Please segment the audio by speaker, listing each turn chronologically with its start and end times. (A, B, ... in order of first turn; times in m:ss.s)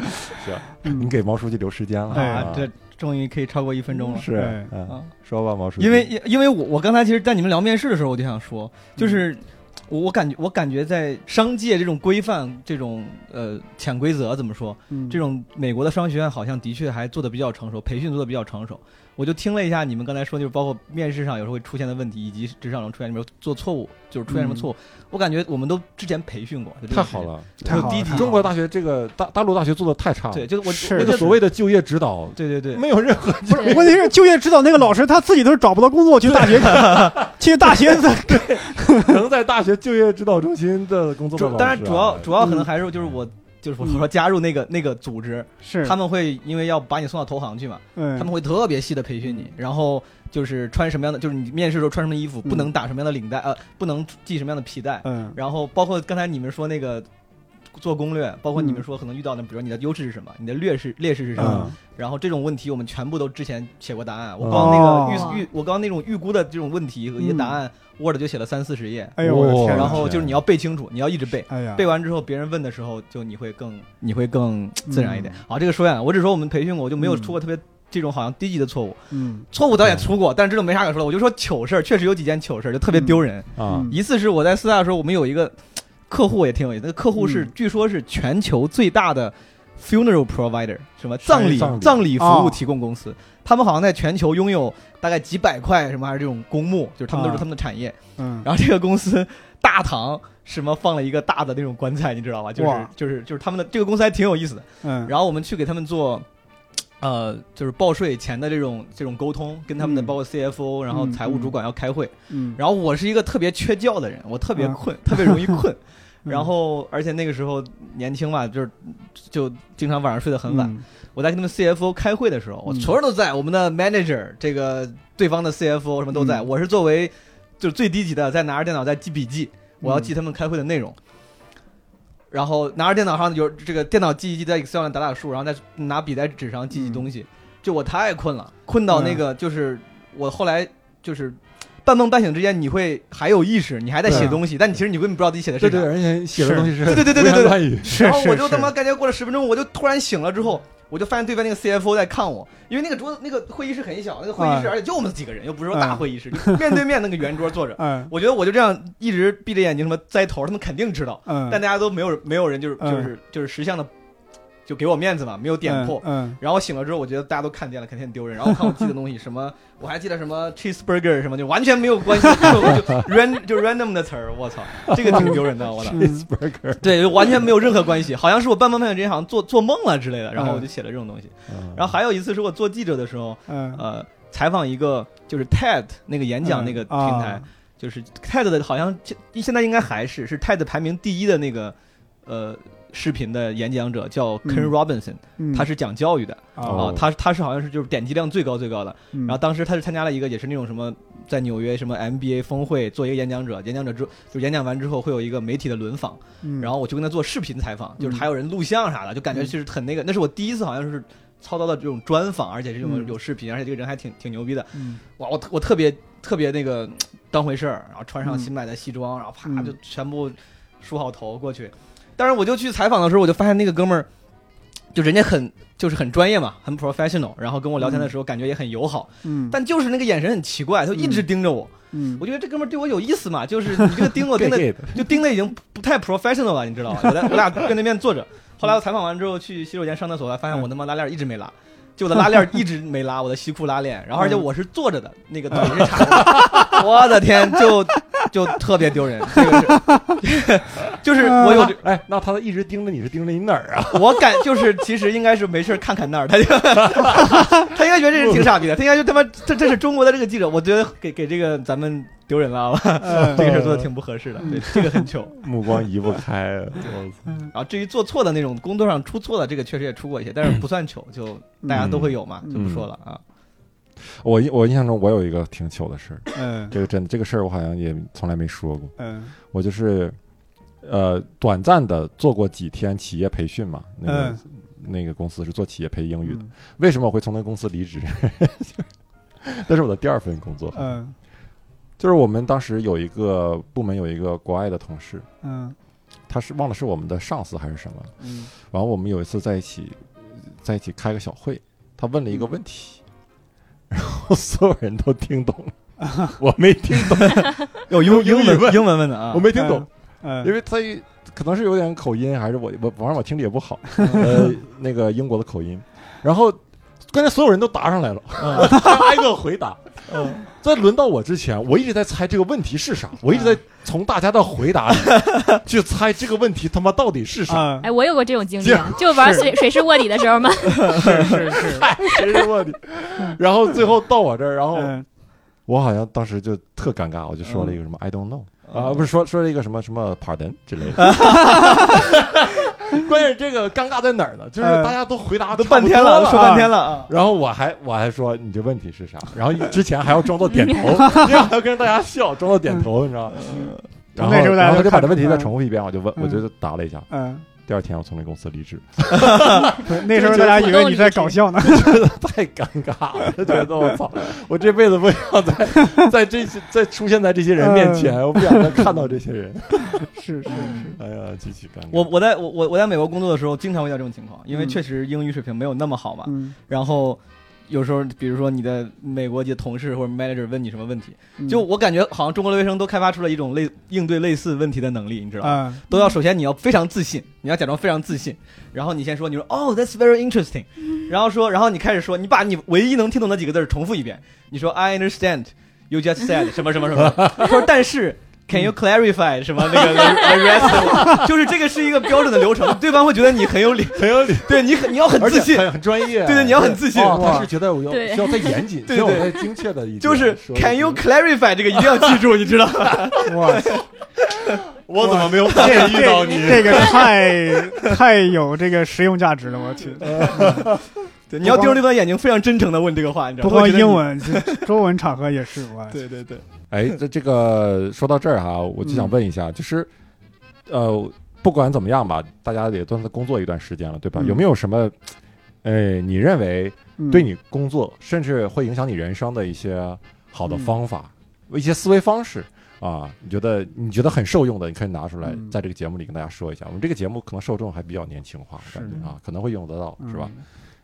0:00.3-0:02.7 A
0:00.3-0:01.1 B
0:02.1-0:02.5 B
0:02.1-0:04.3 C
0:04.0-0:06.1 A
0:04.3-0:04.7 B
0:04.8-0:05.1 C
0:05.8-0:28.4 C
0:09.0-0:09.2 B
0:14.9-0:15.2 B
0:24.3-0:24.7 B
0:26.9-0:34.1 A
0:27.6-0:28.3 B
0:30.3-0:31.4 C
0:30.7-0:31.2 B
0:32.4-0:32.8 C
0:33.5-0:39.2 B
0:36.3-0:42.4 A
0:36.5-0:37.1 C
0:41.3-0:57.1 C
0:42.4-0:42.7 B
0:45.6-0:46.0 B
0:48.0-0:48.3 B
0:49.2-0:49.5 B
0:52.4-0:52.7 B
0:55.0-0:55.4 B
0:57.7-1:19.0 C
0:58.6-0:58.8 B
1:01.3-1:01.8 B
1:01.4-1:01.7 A
1:04.4-1:05.0 A
1:04.5-1:05.4 B
1:05.1-1:05.4 D
1:07.2-1:07.6 B
1:09.2-1:10.1 B
1:09.2-1:10.4 A
1:11.5-1:11.8 B
1:14.9-1:15.4 B
1:17.0-1:17.4 B
1:19.1-1:19.5 B
1:19.5-1:46.2 C
1:19.8-1:20.1 A
1:22.9-1:24.0 B
1:23.6-1:23.9 A
1:27.2-1:27.5 B
1:31.2-1:32.1 A
1:32.1-1:32.6 B
1:37.1-1:37.5 B
1:38.2-1:38.5 B
1:42.6-1:42.9 B
1:44.8-1:45.1 B
1:47.0-2:11.0 C
1:49.8-1:50.1 B
1:50.9-1:51.5 B
1:52.3-1:52.6 B
1:54.6-1:55.6 B
2:00.5-2:00.8 B
2:02.7-2:02.9 B
2:06.1-2:06.4 B
2:09.8-2:10.1 B
2:12.3-2:25.9 C
2:16.7-2:17.0 B
2:18.9-2:19.2 B
2:24.0-2:24.4 A
2:24.0-2:24.4 B
2:25.6-2:28.0 A
2:26.3-2:26.8 B
2:26.8-2:43.9 C
2:27.8-2:28.7 B
2:34.4-2:34.8 B
2:35.7-2:36.6 B
2:37.8-2:38.1 B
2:41.3-2:41.6 B
2:42.8-2:43.1 B
2:44.6-2:56.0 C
2:45.6-2:46.4 B
2:54.9-2:57.5 A
2:55.0-2:56.3 B
2:56.8-3:11.7 C
3:00.3-3:00.7 B
3:01.5-3:01.9 A
3:03.5-3:03.8 B
3:06.4-3:07.4 B
3:12.2-3:44.1 C
3:14.4-3:14.7 B
3:15.4-3:15.7 B
3:16.6-3:17.0 B
3:16.6-3:17.1 A
3:19.1-3:19.4 B
3:26.4-3:26.7 B
3:28.0-3:28.2 B
3:32.8-3:33.1 B
3:34.7-3:35.0 B
3:38.2-3:38.5 B
3:39.4-3:39.7 B
3:44.9-4:11.8 C
3:47.8-3:48.1 B
3:49.2-3:49.6 B
3:50.9-3:51.2 B
3:51.9-3:52.2 B
3:54.2-3:55.2 A
3:57.0-3:57.5 A
4:04.2-4:04.4 B
4:05.5-4:06.7 B
4:06.0-4:06.8 A
4:09.3-4:10.0 B
4:11.2-4:11.7 B
4:11.4-4:14.4 A
4:13.9-4:25.4 C
4:16.8-4:17.5 A
4:18.2-4:18.5 A
4:23.0-4:23.7 B
4:23.2-4:23.8 A
4:24.4-4:25.0 B
4:25.3-4:27.4 A
4:27.5-4:33.2 C
4:31.6-4:32.7 B
4:31.7-4:32.8 A
4:34.0-4:40.2 A
4:36.3-4:36.8 B
4:39.0-4:39.3 B
4:40.8-4:48.9 A
4:44.0-4:44.4 B
4:46.2-4:46.5 B
4:49.4-4:50.9 A
4:50.7-4:51.2 B
4:52.0-4:55.3 A
4:55.4-4:55.8 B
4:56.3-5:03.0 A
4:58.2-4:58.5 B
5:03.9-5:09.9 A
5:06.0-5:06.4 B
5:07.9-5:09.5 C
5:09.5-5:10.5 B
5:10.4-5:27.9 A
5:14.0-5:14.5 B
5:18.4-5:18.8 C
5:20.1-5:20.4 C
5:23.3-5:23.6 B
5:27.5-5:27.9 B
5:27.8-5:31.0 D
5:28.6-5:29.5 A
5:29.2-5:29.4 B
5:30.9-5:31.9 B
5:31.5-5:34.9 A
5:34.7-5:35.0 B
5:35.7-6:00.9 A
5:38.6-5:39.0 C
5:41.0-5:42.0 C
5:41.2-5:41.7 B
5:44.6-5:44.9 B
5:45.5-5:47.1 C
5:46.3-5:46.7 B
5:53.3-5:53.8 C
5:54.2-5:55.5 B
5:56.2-5:56.4 B
5:57.1-5:57.4 B
5:59.6-6:02.0 B
6:00.2-6:01.4 D
6:01.6-6:12.1 A
6:07.6-6:08.9 B
6:09.9-6:11.0 B
6:10.5-6:10.9 C
6:11.9-6:47.5 C
6:14.5-6:14.8 B
6:16.2-6:16.6 B
6:21.4-6:21.6 B
6:25.4-6:25.8 B
6:36.9-6:37.6 A
6:40.6-6:41.3 A
6:43.9-6:51.0 A
6:47.1-6:47.5 B
6:47.9-6:48.6 D
6:48.9-6:49.5 C
6:50.0-6:54.6 C
6:51.8-6:52.1 A
6:53.2-6:53.8 B
6:54.8-6:57.1 A
6:55.0-7:00.7 B
6:55.4-6:57.1 C
7:00.0-7:00.9 A
7:00.1-7:00.7 C
7:01.3-7:04.6 C
7:01.4-7:01.8 B
7:03.4-7:06.0 B
7:05.9-7:06.4 C
7:06.7-7:09.9 A
7:08.8-7:09.1 B
7:10.7-7:30.3 A
7:14.2-7:14.4 B
7:17.0-7:17.3 B
7:20.5-7:20.8 B
7:25.2-7:25.5 B
7:28.6-7:29.0 B
7:30.0-7:30.4 B